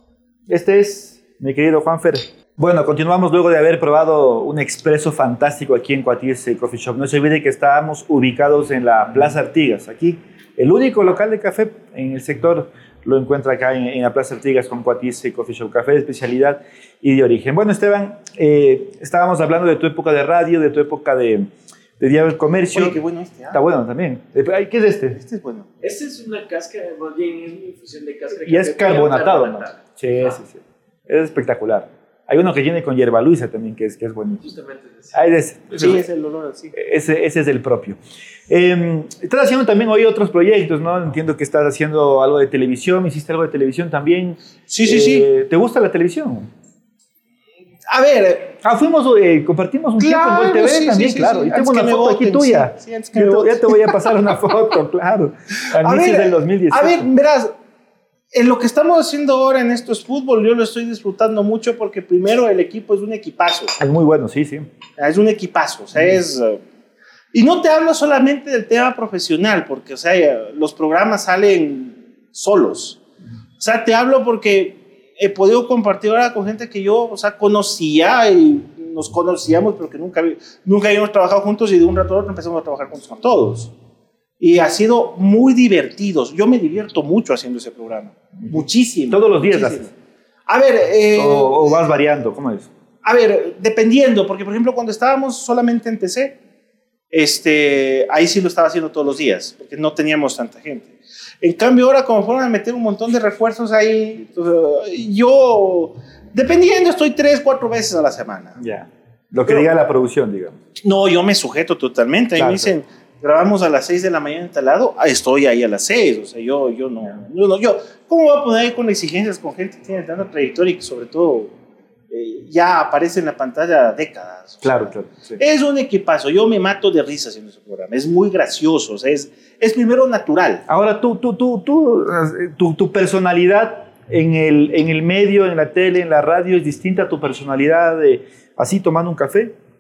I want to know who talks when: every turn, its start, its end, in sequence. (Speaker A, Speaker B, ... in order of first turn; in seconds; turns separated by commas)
Speaker A: 0.5-23.0, Speaker B: 22.7-23.6, Speaker A: 23.5-25.2, Speaker B: 25.1-25.7, Speaker C: 25.8-29.8, Speaker A: 28.4-34.5, Speaker C: 34.4-35.2, Speaker A: 35.1-36.0, Speaker B: 35.8-36.7, Speaker A: 36.7-46.5, Speaker B: 44.7-45.3, Speaker B: 47.9-48.6, Speaker A: 48.6-57.1, Speaker B: 50.0-54.0, Speaker B: 55.8-57.5, Speaker B: 58.3-63.8, Speaker A: 63.8-64.7, Speaker B: 65.0-66.6, Speaker B: 67.3-73.0, Speaker B: 73.6-83.7, Speaker B: 84.4-89.9, Speaker A: 88.4-89.9, Speaker B: 90.5-91.8, Speaker A: 91.2-92.7, Speaker B: 93.0-96.4, Speaker B: 97.1-108.6, Speaker A: 108.6-110.6, Speaker B: 110.8-121.5, Speaker A: 112.4-112.7, Speaker B: 122.1-130.6, Speaker A: 124.6-125.4, Speaker A: 130.7-139.6